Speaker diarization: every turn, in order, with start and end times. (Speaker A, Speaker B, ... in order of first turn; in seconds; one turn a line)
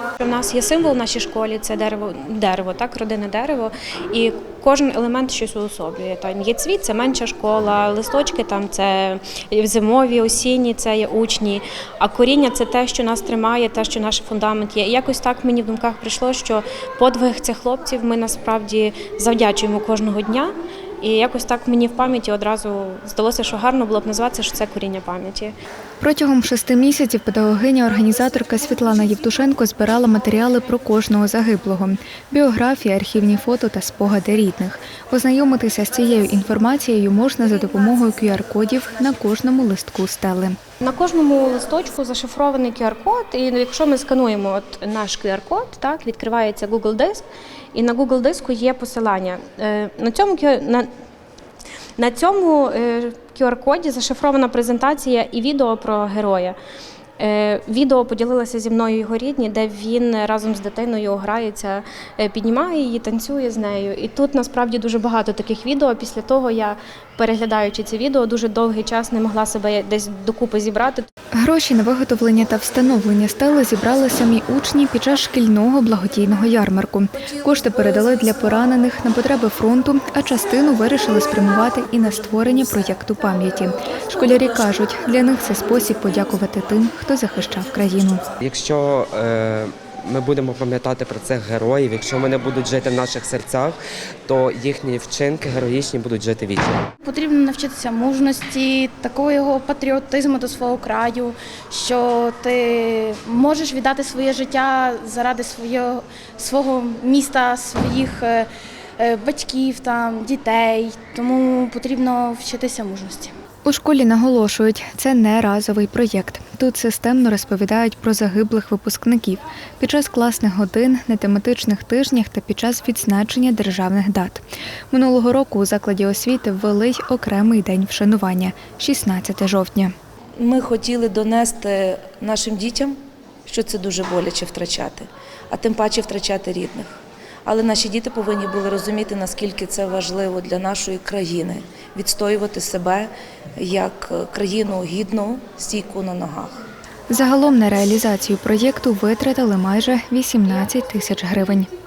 Speaker A: 0.2-25.5
Speaker B: 26.0-40.6
Speaker A: 40.8-50.9
Speaker A: 52.0-56.6
Speaker A: 57.2-71.1
Speaker B: 71.4-88.2
Speaker C: 88.4-96.8
Speaker D: 97.0-108.5
Speaker D: 109.0-113.3
Speaker B: 113.7-129.9
Speaker E: 130.4-146.6
Speaker B: 147.1-151.7